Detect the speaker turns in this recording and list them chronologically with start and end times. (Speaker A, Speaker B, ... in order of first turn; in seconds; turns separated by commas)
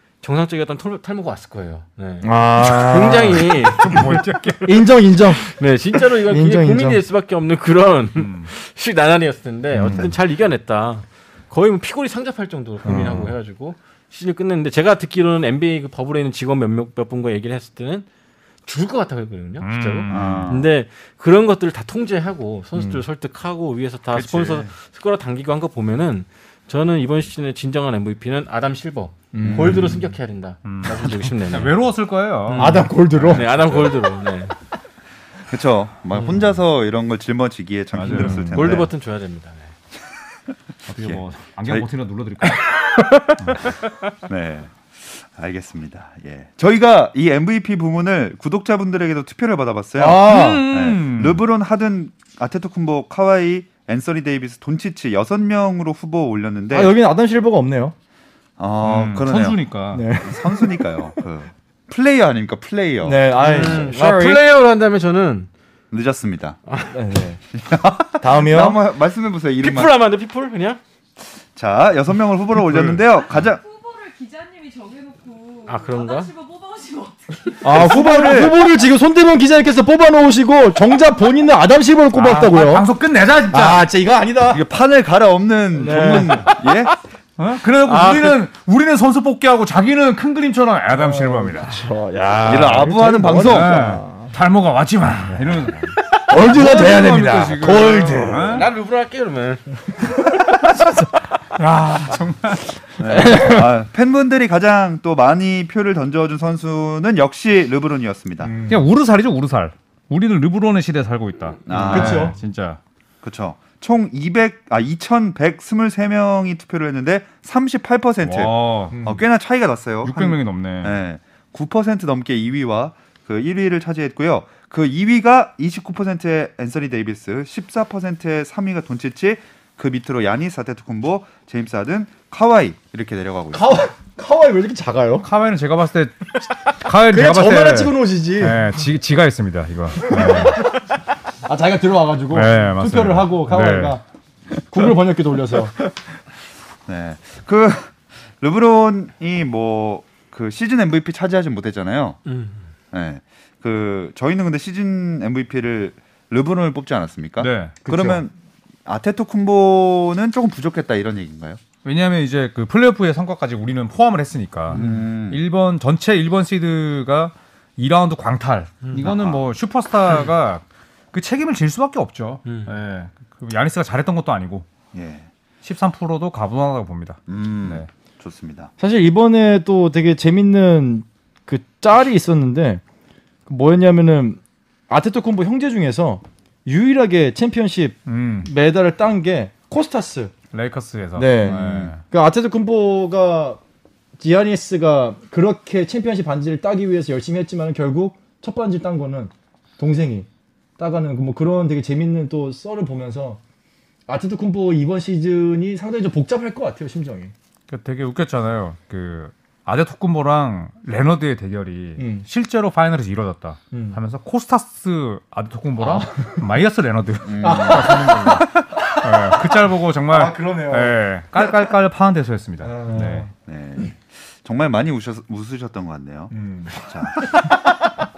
Speaker A: 0.2-4.1, Speaker B: 2.2-5.5, Speaker C: 3.3-4.9, Speaker A: 5.4-18.1, Speaker B: 6.2-7.0, Speaker C: 8.2-8.5, Speaker C: 9.7-10.2, Speaker B: 9.8-10.1, Speaker C: 12.8-13.3, Speaker B: 12.9-13.2, Speaker A: 18.7-31.9, Speaker C: 19.6-20.6, Speaker D: 20.1-20.7, Speaker B: 22.8-23.0, Speaker C: 24.1-24.7, Speaker B: 29.3-30.0, Speaker D: 29.4-29.8, Speaker C: 30.6-34.1, Speaker A: 32.4-34.5, Speaker B: 32.6-33.5, Speaker D: 35.5-38.9, Speaker C: 38.0-38.8, Speaker B: 38.1-38.8, Speaker A: 38.1-39.7, Speaker C: 40.9-42.6, Speaker D: 41.0-41.9, Speaker C: 43.4-43.7, Speaker D: 44.3-57.0, Speaker B: 50.0-50.7, Speaker C: 50.2-51.4, Speaker B: 56.7-58.0, Speaker D: 58.6-59.6, Speaker C: 58.8-60.1, Speaker B: 59.9-61.1, Speaker D: 60.2-63.2, Speaker B: 63.0-64.4, Speaker A: 63.4-65.5, Speaker C: 63.7-64.4, Speaker D: 65.9-66.6, Speaker B: 66.9-67.4, Speaker D: 67.6-69.9, Speaker B: 68.2-68.8, Speaker A: 69.6-70.8, Speaker D: 71.5-73.6, Speaker C: 72.6-73.0, Speaker E: 73.1-77.7, Speaker A: 75.7-76.3, Speaker D: 77.6-78.6, Speaker B: 77.6-82.9, Speaker C: 82.1-83.9, Speaker B: 83.5-84.6, Speaker D: 84.5-86.9, Speaker B: 85.7-86.7, Speaker C: 87.4-91.9, Speaker B: 87.9-88.4, Speaker B: 90.9-94.3, Speaker D: 92.5-93.8, Speaker C: 92.5-98.7, Speaker B: 96.2-98.7, Speaker A: 98.4-99.8, Speaker B: 100.0-101.1, Speaker C: 101.5-102.8, Speaker D: 103.0-108.6, Speaker B: 103.0-103.7, Speaker B: 108.4-108.8, Speaker C: 108.7-112.8, Speaker D: 111.7-112.4, Speaker B: 111.7-112.4, Speaker D: 113.2-133.8, Speaker C: 118.2-119.0, Speaker B: 118.9-119.2, Speaker C: 120.0-121.0, Speaker B: 133.5-135.3, Speaker C: 135.2-140.8, Speaker B: 137.1-138.7, Speaker B: 140.0-140.8, Speaker B: 141.4-144.0, Speaker C: 142.3-144.0, Speaker B: 144.7-145.8, Speaker D: 146.9-152.2, Speaker A: 152.2-152.7, Speaker D: 152.9-158.3, Speaker C: 157.4-157.8, Speaker B: 157.8-158.2, Speaker D: 158.9-161.6, Speaker C: 161.8-174.7, Speaker D: 164.7-165.4, Speaker D: 169.0-169.4, Speaker A: 172.4-172.7, Speaker D: 174.9-175.3, Speaker C: 175.6-177.9, Speaker D: 177.3-178.7, Speaker B: 178.8-182.8, Speaker B: 183.5-190.3, Speaker C: 188.1-188.5, Speaker C: 190.5-192.0, Speaker B: 191.2-193.6, Speaker D: 191.4-191.9, Speaker B: 194.2-200.3, Speaker B: 200.8-203.4, Speaker B: 204.1-207.3, Speaker C: 207.7-223.3, Speaker B: 212.0-212.3, Speaker B: 213.7-214.0, Speaker B: 215.8-216.4, Speaker D: 217.3-218.0, Speaker B: 217.4-219.6, Speaker B: 220.1-221.0, Speaker B: 222.6-223.3, Speaker D: 223.4-227.4, Speaker B: 226.3-226.7